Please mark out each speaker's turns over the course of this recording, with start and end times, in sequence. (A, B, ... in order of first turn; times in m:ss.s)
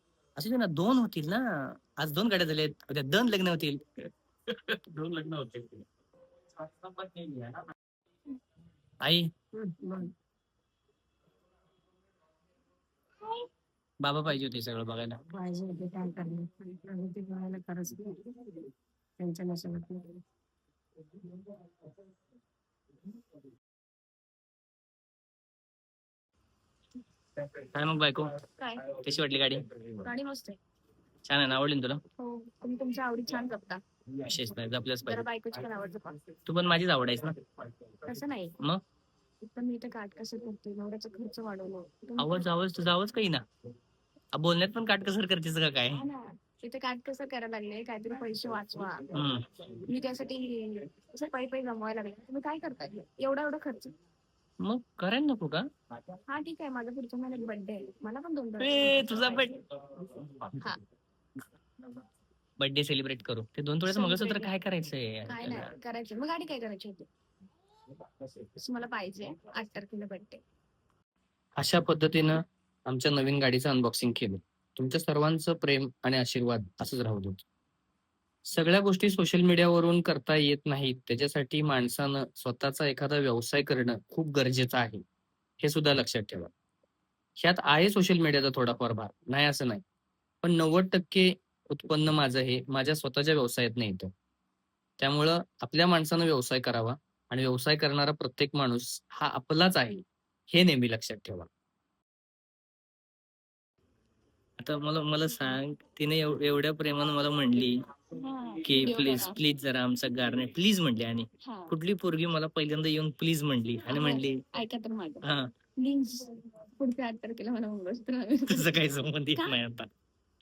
0:00.4-0:03.8 A
0:04.5-0:05.9 A
0:06.7-0:07.6 A
0:09.0-0:09.3 A
0:09.6-0:10.1 B
0:14.0-0:15.2 A
0:15.3-0:18.7 B
0:19.2-0:20.2 B
0:27.6-0:28.3 A
0:28.6-0:28.9 C
0:29.0-0:29.8 A
0:30.0-0:30.6 C
0:31.2-0:32.0 A
0:32.2-0:33.8 C
0:34.2-0:35.3 A
0:35.1-0:36.2 C
0:36.5-0:37.4 A
0:38.0-0:38.6 C
0:39.5-0:42.5 C
0:42.2-0:43.4 A
0:44.3-0:46.1 A
0:45.9-0:49.0 C
0:49.1-0:49.4 A
0:49.9-0:53.9 C
0:54.6-0:55.6 A
0:56.3-0:59.5 C
0:58.6-0:59.6 A
1:02.6-1:05.7 A
1:03.8-1:04.5 C
1:05.3-1:07.1 C
1:08.6-1:10.4 C
1:11.6-1:12.4 A
1:12.9-1:17.4 A
1:18.5-1:25.0 A
1:25.6-1:26.5 A
1:27.4-1:29.8 A
1:30.4-1:34.1 A
1:35.0-1:41.5 A
1:44.6-1:47.8 A
1:48.2-1:49.4 C
1:48.6-1:54.4 A
1:51.4-1:51.7 C
1:53.8-1:55.2 C
1:55.2-1:55.5 A
1:55.8-1:58.7 C
1:58.5-1:59.9 A